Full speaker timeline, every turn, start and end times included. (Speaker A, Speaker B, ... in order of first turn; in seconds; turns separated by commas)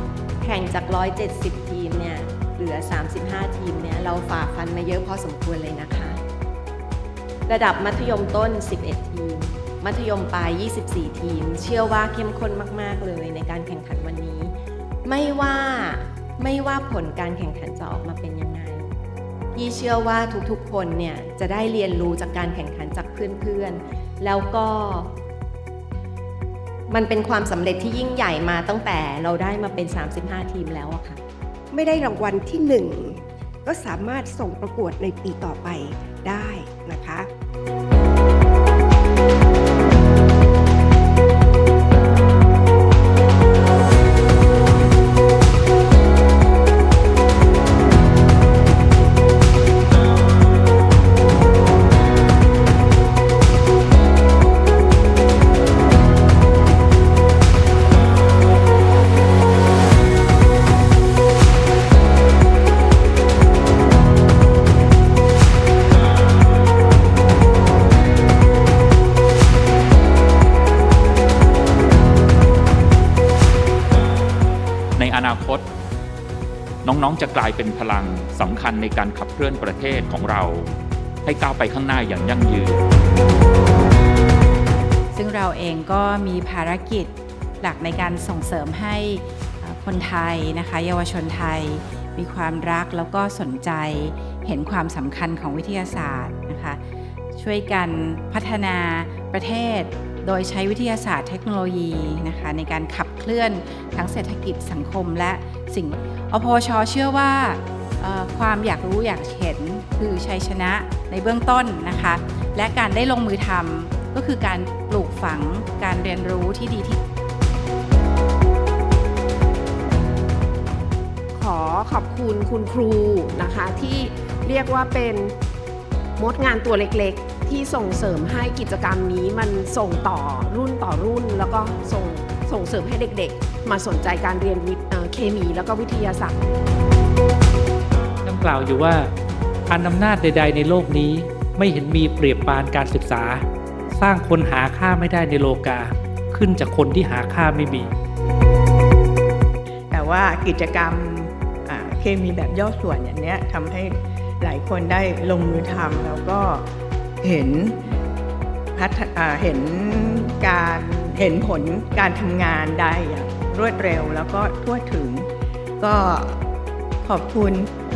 Speaker A: 0.4-6.2, Speaker A: 7.5-18.9, Speaker A: 19.5-25.1, Speaker A: 26.9-31.2, Speaker B: 31.7-37.3, Speaker C: 75.0-75.7, Speaker C: 76.8-80.7, Speaker C: 81.2-82.8, Speaker D: 85.1-96.8, Speaker D: 97.3-117.0, Speaker E: 121.3-125.3, Speaker E: 126.2-136.4, Speaker F: 138.2-139.1, Speaker F: 139.7-147.9, Speaker G: 149.9-156.7, Speaker G: 157.2-157.8, Speaker G: 158.7-166.4, Speaker G: 167.0-167.7